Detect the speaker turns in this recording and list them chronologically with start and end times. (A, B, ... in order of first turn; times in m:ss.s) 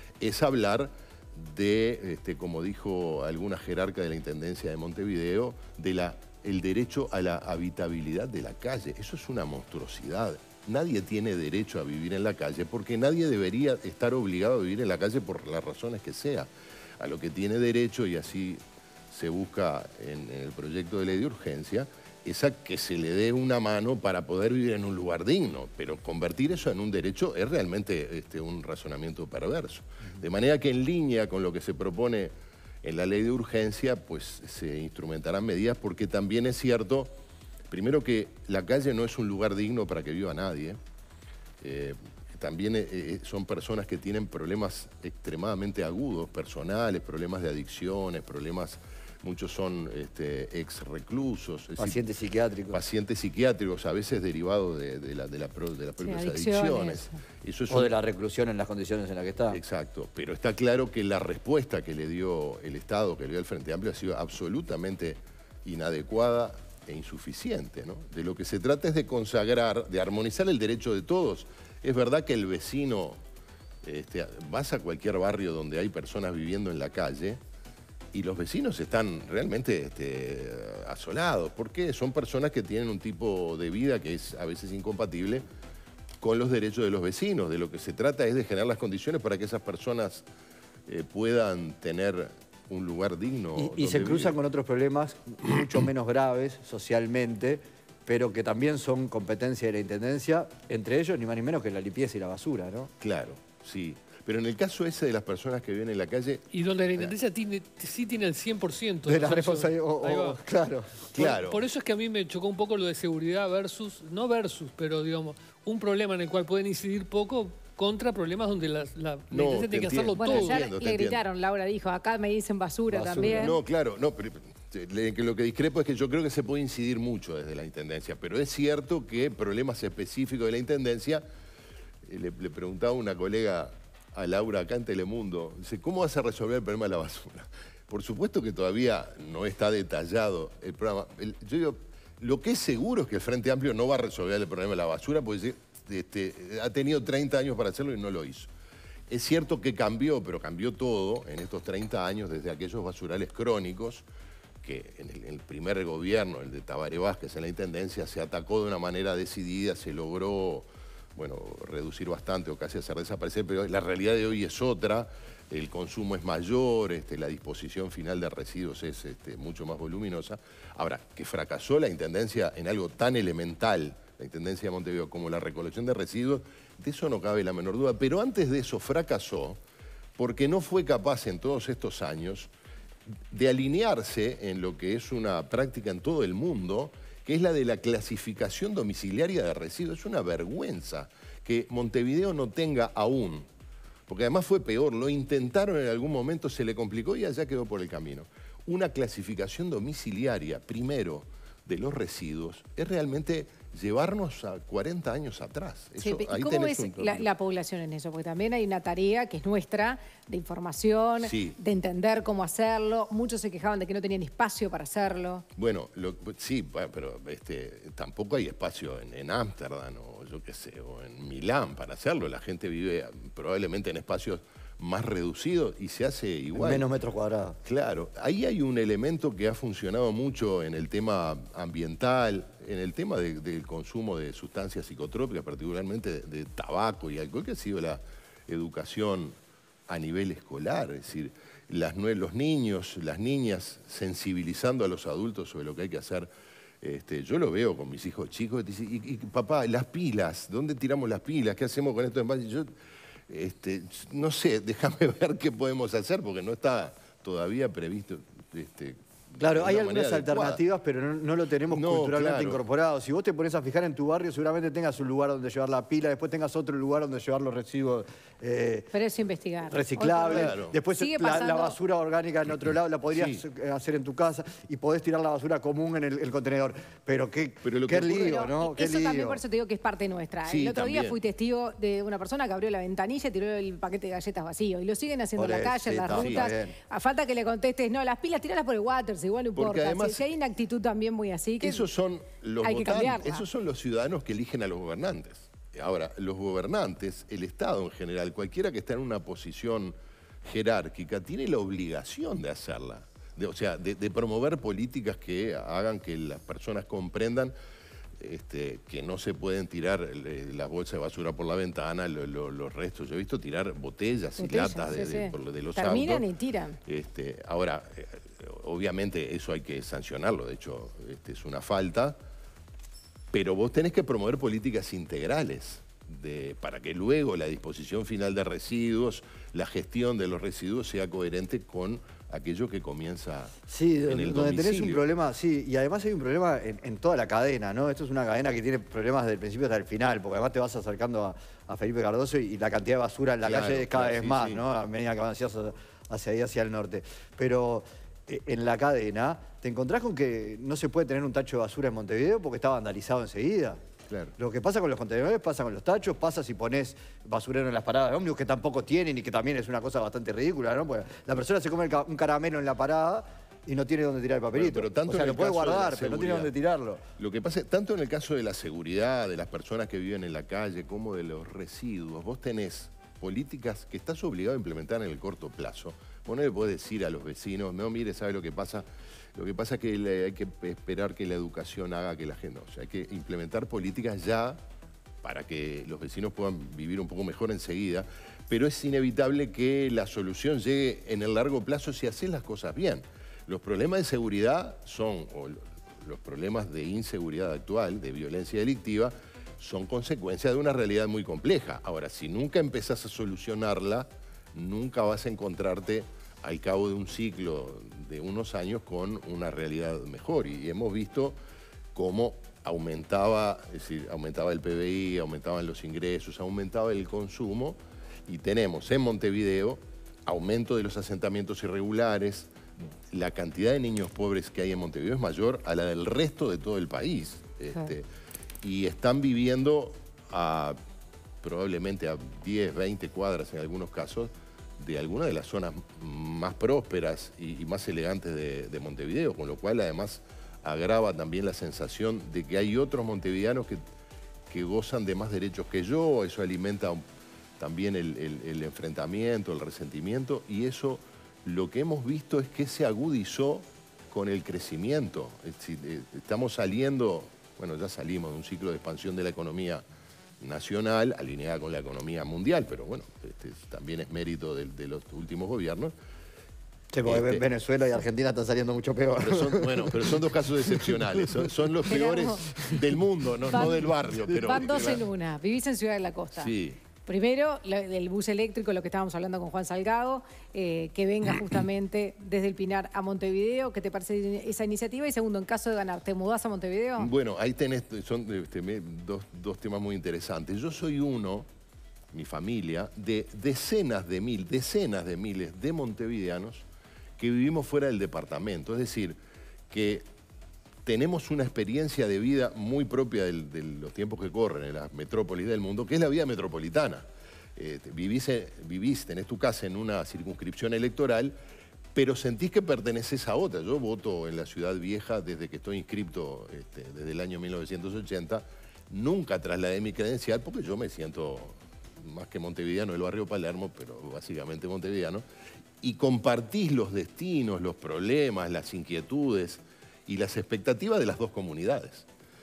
0:00.2-0:37.1 A
0:37.7-0:40.8 A
0:41.6-0:52.0 A
0:51.8-0:52.8 B
0:52.7-0:57.9 A
0:56.0-0:57.2 C
0:57.7-0:59.6 B
0:59.5-1:13.2 A
1:13.8-1:17.4 A
1:18.1-1:25.4 A
1:26.2-1:30.2 A
1:30.9-1:34.3 A
1:33.6-1:42.9 B
1:43.0-1:46.4 A
1:46.5-1:50.4 D
1:49.0-1:51.4 B
1:51.1-2:00.6 D
1:51.2-1:51.6 A
1:59.3-2:01.2 A
2:00.2-2:03.6 C
2:02.9-2:03.6 B
2:03.2-2:11.2 A
2:12.0-2:28.5 A
2:29.1-2:34.1 A
2:34.6-2:59.6 A
3:00.2-3:02.5 A
3:03.3-3:13.5 A
3:14.1-3:27.3 A
3:26.0-3:35.4 C
3:31.2-3:31.6 A
3:35.6-3:46.8 A
3:46.5-3:47.6 B
3:47.6-3:59.4 A
3:59.9-4:06.3 A
4:06.8-4:12.7 A
4:13.3-4:20.6 A
4:19.4-4:28.9 B
4:21.7-4:22.6 A
4:28.9-4:31.8 C
4:29.7-4:39.4 B
4:30.2-4:30.8 A
4:33.1-4:33.4 A
4:37.6-4:38.3 A
4:38.0-4:51.9 C
4:40.5-4:41.2 A
4:45.4-4:46.8 B
4:46.1-4:46.5 A
4:49.6-4:50.3 A
4:51.6-5:07.5 A
4:52.6-4:53.5 C
5:08.2-5:16.2 A
5:14.4-5:16.8 C
5:16.8-5:22.2 A
5:23.3-5:35.0 A
5:33.7-5:53.8 B
5:43.4-5:44.6 A
5:54.4-6:07.0 B
6:04.6-6:06.5 A
6:07.2-6:24.6 A
6:25.2-6:51.4 A
6:51.9-7:08.1 A
7:08.6-7:10.8 A
7:11.4-7:23.8 A
7:24.5-7:27.0 A
7:27.6-7:39.8 A
7:40.4-7:45.9 A
7:46.9-7:51.5 B
7:47.1-7:47.4 A
7:49.2-7:55.0 A
7:51.9-7:52.6 C
7:53.5-7:56.5 C
7:56.4-7:56.8 A
7:57.1-8:07.1 C
8:07.0-8:11.5 A
8:12.1-8:16.7 A
8:17.2-8:19.2 A
8:19.7-8:20.0 A
8:20.8-8:27.0 A
8:27.6-8:31.4 A
8:32.0-8:45.2 A
8:45.8-8:52.1 A